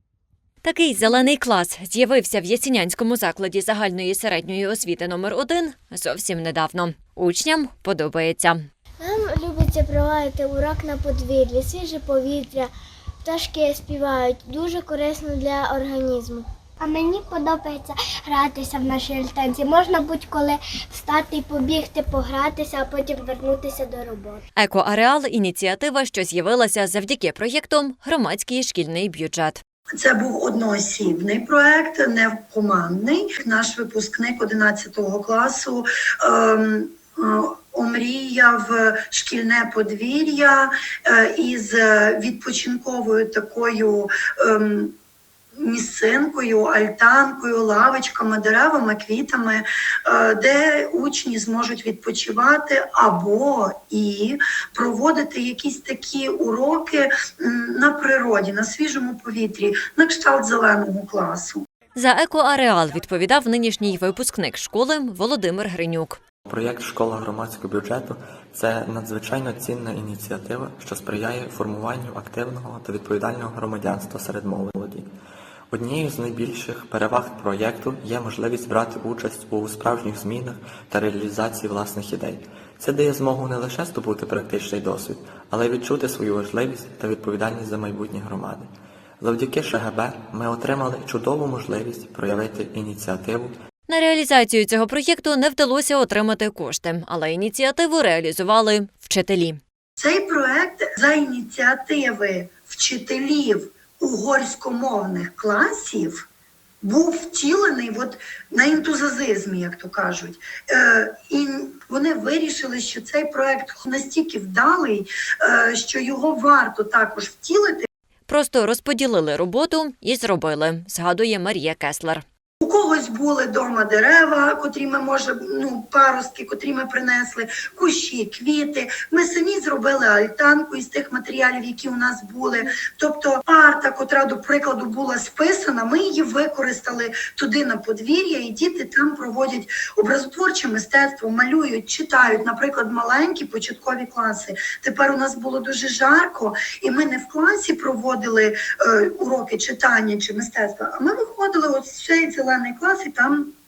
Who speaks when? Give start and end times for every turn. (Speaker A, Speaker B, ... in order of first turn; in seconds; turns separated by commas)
Speaker A: 0.6-8.7, Speaker B: 9.0-12.7, Speaker B: 13.2-16.5, Speaker C: 16.9-24.4, Speaker A: 24.6-29.6, Speaker D: 29.9-44.9, Speaker D: 45.6-61.6, Speaker A: 62.0-66.2, Speaker E: 66.5-75.1, Speaker E: 75.7-88.7, Speaker E: 89.2-93.5, Speaker A: 93.9-99.6, Speaker D: 100.0-106.3, Speaker D: 106.8-117.9, Speaker A: 118.3-122.2, Speaker D: 122.6-153.5